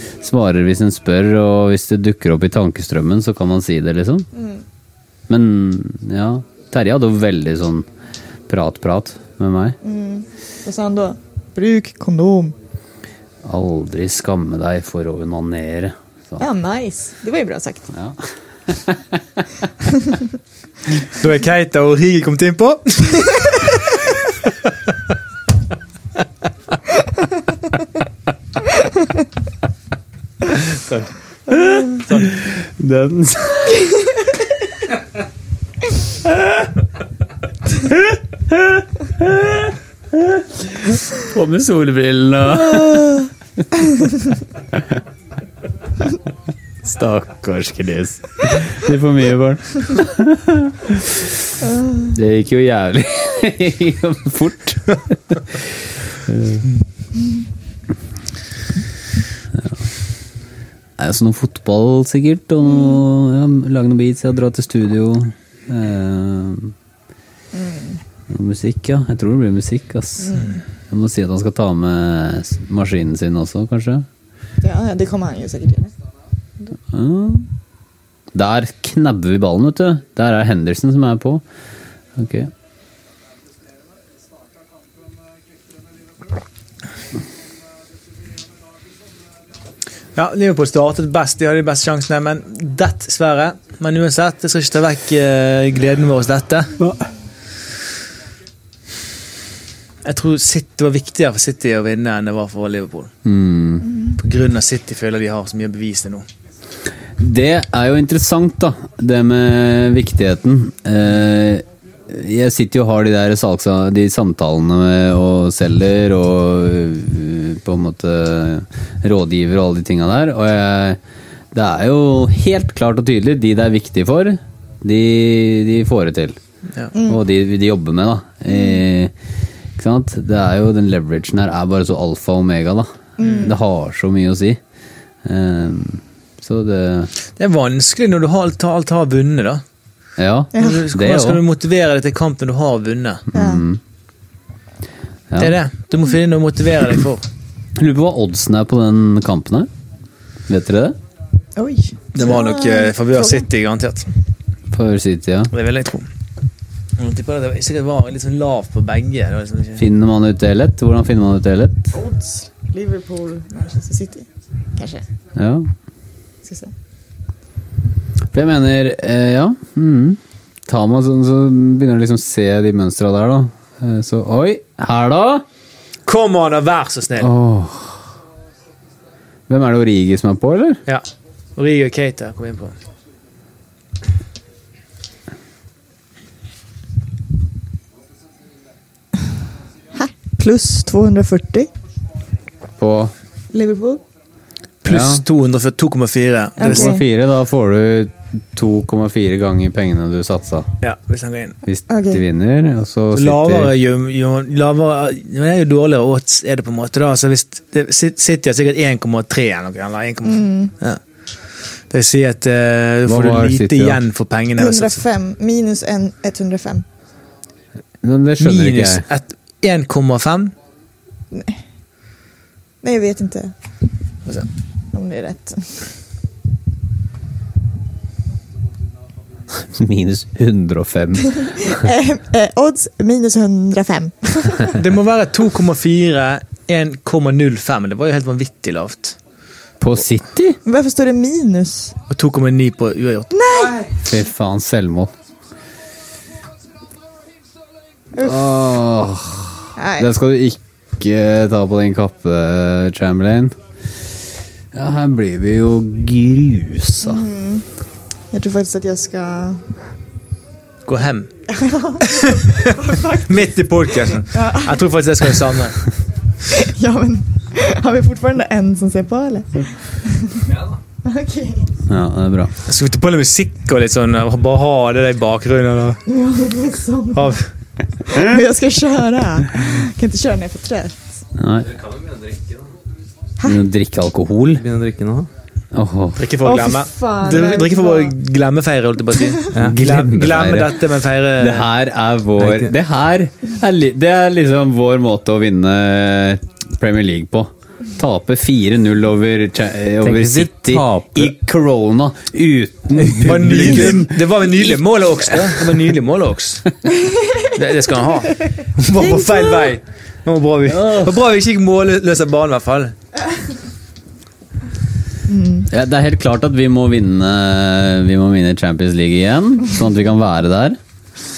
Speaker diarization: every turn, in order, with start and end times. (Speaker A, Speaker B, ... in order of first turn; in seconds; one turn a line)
Speaker A: 0.2-4.3
Speaker B: 4.3-4.6
Speaker A: 5.3-7.9
Speaker A: 8.5-9.8
Speaker B: 9.8-12.5
Speaker A: 13.4-16.4
Speaker B: 16.4-17.9
Speaker A: 17.9-19.0
Speaker C: 21.1-23.7
Speaker A: 31.5-33.9
Speaker A: 37.9-43.3
Speaker A: 46.8-51.3
Speaker A: 52.1-56.6
Speaker A: 61.0-66.7
Speaker B: 67.5-68.0
Speaker A: 68.3-74.1
Speaker B: 74.6-75.9
Speaker A: 76.9-77.5
Speaker A: 78.3-81.4
Speaker A: 82.2-82.5
Speaker C: 90.1-96.8
Speaker C: 100.0-103.1
Speaker A: 103.2-103.9
Speaker B: 103.8-104.2
Speaker C: 104.2-106.3
Speaker A: 107.2-121.0
Speaker A: 121.5-126.4
Speaker B: 126.9-127.2
Speaker A: 127.0-129.1
Speaker A: 129.8-134.6
Speaker B: 133.2-133.5
Speaker C: 133.2-133.5
Speaker A: 135.2-137.1
Speaker C: 137.3-139.6
Speaker A: 140.2-141.4
Speaker C: 140.5-143.2
Speaker B: 140.5-140.8
Speaker A: 143.3-143.8
Speaker B: 143.3-143.6
Speaker A: 145.3-145.6
Speaker C: 145.4-147.2
Speaker A: 147.8-149.7
Speaker A: 150.5-151.0
Speaker B: 151.6-153.4
Speaker C: 152.1-154.1
Speaker A: 154.7-155.5
Speaker C: 155.5-156.1
Speaker C: 157.0-159.8
Speaker A: 159.8-161.9
Speaker B: 161.9-165.0
Speaker A: 165.3-165.7
Speaker B: 166.4-166.7
Speaker A: 168.3-175.4
Speaker C: 176.1-177.3
Speaker A: 177.2-178.0
Speaker A: 179.5-180.8
Speaker C: 180.9-182.8
Speaker B: 189.9-191.7
Speaker A: 192.8-193.1
Speaker B: 193.5-194.0
Speaker C: 194.8-196.9
Speaker A: 194.9-195.2
Speaker B: 196.6-197.0
Speaker A: 196.6-200.7
Speaker C: 200.8-201.6
Speaker A: 201.6-203.7
Speaker B: 201.9-202.2
Speaker C: 203.1-211.0
Speaker B: 210.2-210.7
Speaker C: 211.9-215.0
Speaker A: 213.1-214.0
Speaker B: 214.6-216.8
Speaker A: 218.0-219.0
Speaker C: 218.4-220.5
Speaker B: 221.3-221.6
Speaker B: 222.8-223.5
Speaker B: 224.9-225.7
Speaker A: 229.5-231.8
Speaker B: 231.6-234.8
Speaker C: 234.7-239.2
Speaker A: 239.8-240.6
Speaker B: 240.6-241.9
Speaker C: 242.1-243.8
Speaker B: 243.3-243.8
Speaker A: 244.0-245.1
Speaker A: 248.2-253.6
Speaker B: 249.8-250.1
Speaker A: 254.7-257.2
Speaker B: 257.0-257.6
Speaker B: 258.3-259.6
Speaker C: 260.8-261.3
Speaker B: 261.5-263.5
Speaker C: 262.1-265.8
Speaker B: 264.1-264.8
Speaker B: 266.5-270.5
Speaker B: 271.0-271.7
Speaker A: 271.9-272.5
Speaker C: 272.6-276.0
Speaker B: 276.1-277.4
Speaker C: 277.1-277.5
Speaker B: 278.1-281.0
Speaker A: 281.4-281.8
Speaker D: 281.9-282.5
Speaker A: 283.4-284.6
Speaker D: 284.6-285.3
Speaker A: 285.7-286.3
Speaker C: 286.2-291.7
Speaker B: 286.4-288.1
Speaker D: 289.5-290.0
Speaker A: 289.6-290.8
Speaker A: 291.4-304.5
Speaker D: 292.4-292.7
Speaker D: 300.0-301.3
Speaker C: 303.2-306.6
Speaker B: 307.0-307.5
Speaker C: 307.5-312.9
Speaker B: 309.0-309.7
Speaker A: 310.7-311.2
Speaker B: 315.3-315.7
Speaker A: 315.7-320.8